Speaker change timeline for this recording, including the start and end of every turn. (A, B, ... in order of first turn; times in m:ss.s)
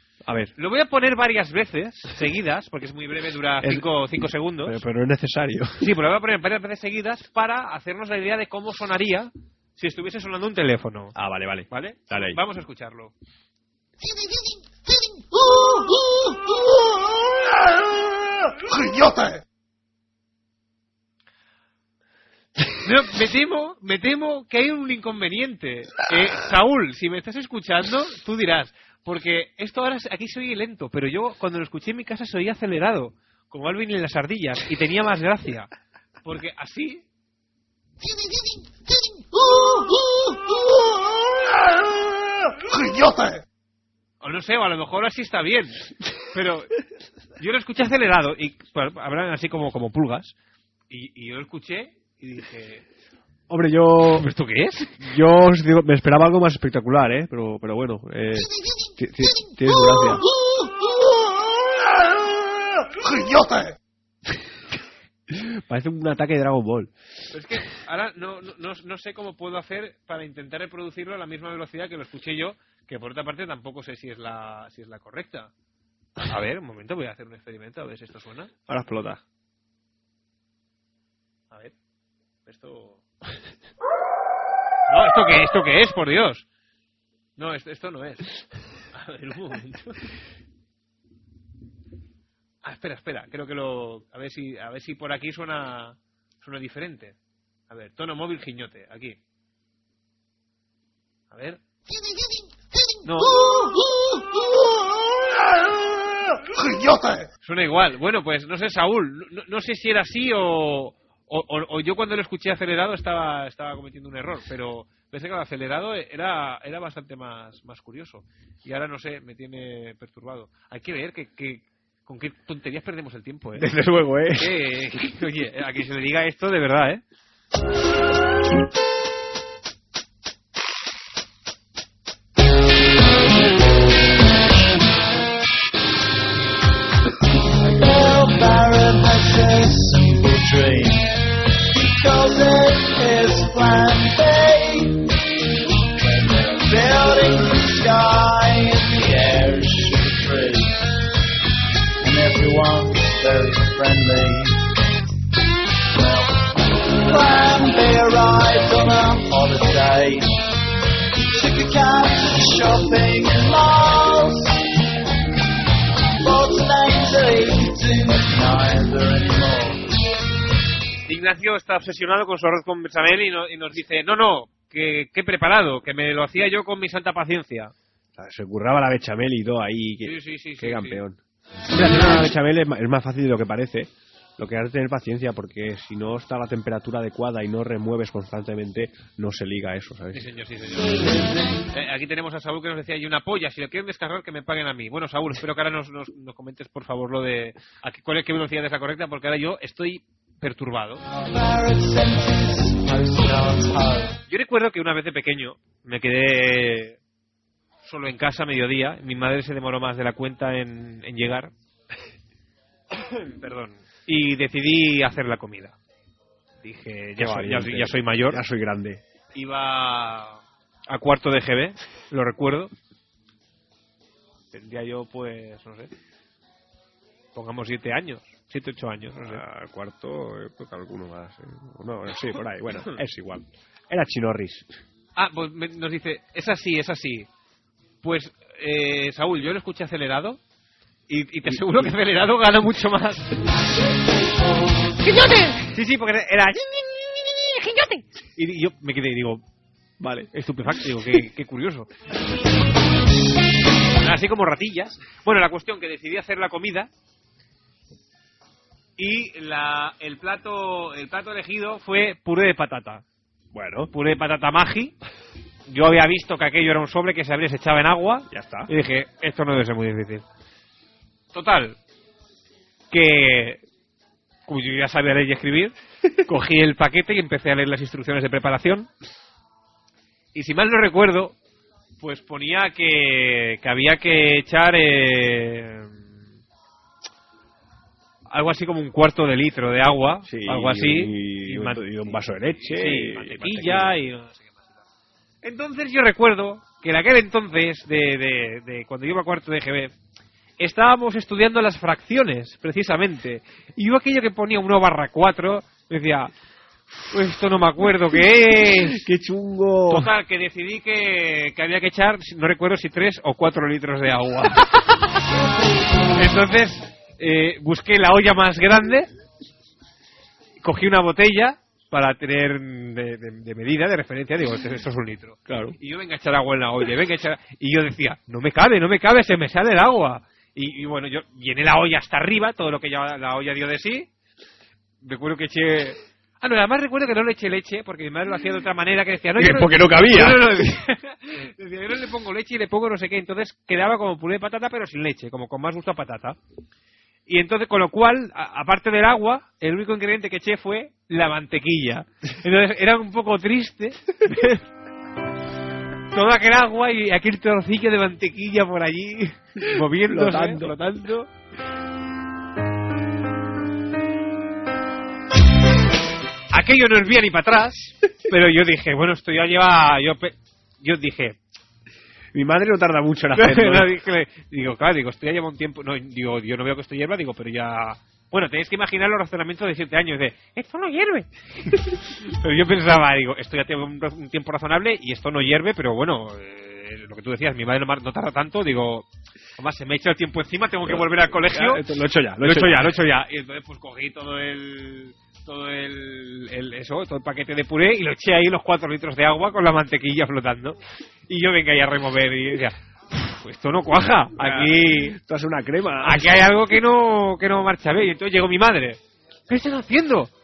0:00.2-0:00.5 A
0:00.6-0:04.8 B
0:03.6-0:03.9 A
0:04.6-0:05.9 A
0:05.8-0:11.2 B
0:11.2-0:12.4 A
0:11.7-0:13.1 B
0:22.8-0:35.7 B
0:36.2-0:37.0 B
0:44.2-0:46.7 B
0:47.4-0:50.3 B
0:50.9-0:52.8 B
0:53.5-0:54.3 A
0:54.1-0:55.0 B
0:55.0-1:00.2 A
1:03.0-1:03.7 A
1:05.3-1:06.9 A
1:07.3-1:15.5 B
1:16.2-1:18.5 B
1:18.7-1:19.2 A
1:22.5-1:23.0 B
1:24.9-1:26.4 B
1:27.4-1:28.3 B
1:28.9-1:30.0 B
1:32.6-1:37.2 B
1:37.7-1:39.2 B
1:41.3-1:41.6 B
1:43.0-1:43.5 B
1:47.4-2:03.7 B
2:03.6-2:04.5 A
2:04.3-2:07.0 B
2:26.7-2:28.3 C
2:29.0-2:29.2 C
2:37.2-2:38.0 C
2:41.6-2:42.8 C
2:46.5-2:48.5 C
2:51.1-2:57.7 B
2:58.2-3:01.2 A
3:00.0-3:01.0 B
3:01.7-3:10.3 A
3:10.1-3:11.1 B
3:11.7-3:21.0 B
3:22.2-3:23.4 C
3:24.3-3:27.0 B
3:27.8-3:31.5 B
3:33.1-3:35.7 B
3:36.6-3:38.4 B
3:37.2-3:39.0 A
3:39.3-3:42.7 B
3:44.5-3:45.9 B
3:47.4-3:49.4 B
3:49.2-3:54.7 A
3:55.2-3:57.3 B
3:58.0-4:00.4 B
4:01.1-4:03.4 B
4:01.5-4:01.8 A
4:05.0-4:09.4 B
4:10.0-4:10.3 A
4:10.3-4:11.9 B
4:14.0-4:16.9 B
4:19.0-4:23.0 B
4:23.5-4:23.9 A
4:23.9-4:25.0 B
4:25.7-4:30.2 B
4:28.3-4:28.7 A
4:31.3-4:31.8 B
4:32.9-4:33.6 B
4:34.5-4:35.7 B
4:36.3-4:38.9 B
4:40.3-4:41.4 B
4:42.0-4:46.0 B
4:48.3-4:54.8 B
4:50.3-4:54.0 A
4:55.4-4:59.9 B
5:00.6-5:06.3 B
5:07.1-5:09.0 B
5:08.7-5:10.1 A
5:09.9-5:14.9 B
5:16.2-5:19.1 B
5:20.6-5:34.1 B
5:25.5-5:25.8 A
5:35.0-5:46.4 B
5:39.4-5:40.7 A
5:47.3-5:54.6 B
5:56.1-6:01.3 B
5:59.6-6:01.0 A
6:06.5-6:11.4 B
6:12.3-6:13.9 A
6:13.4-6:29.1 B
6:29.6-6:31.8 B
6:30.8-6:32.9 A
6:32.4-6:40.8 B
6:41.3-6:45.2 B
6:44.4-6:46.5 A
6:46.0-6:50.3 B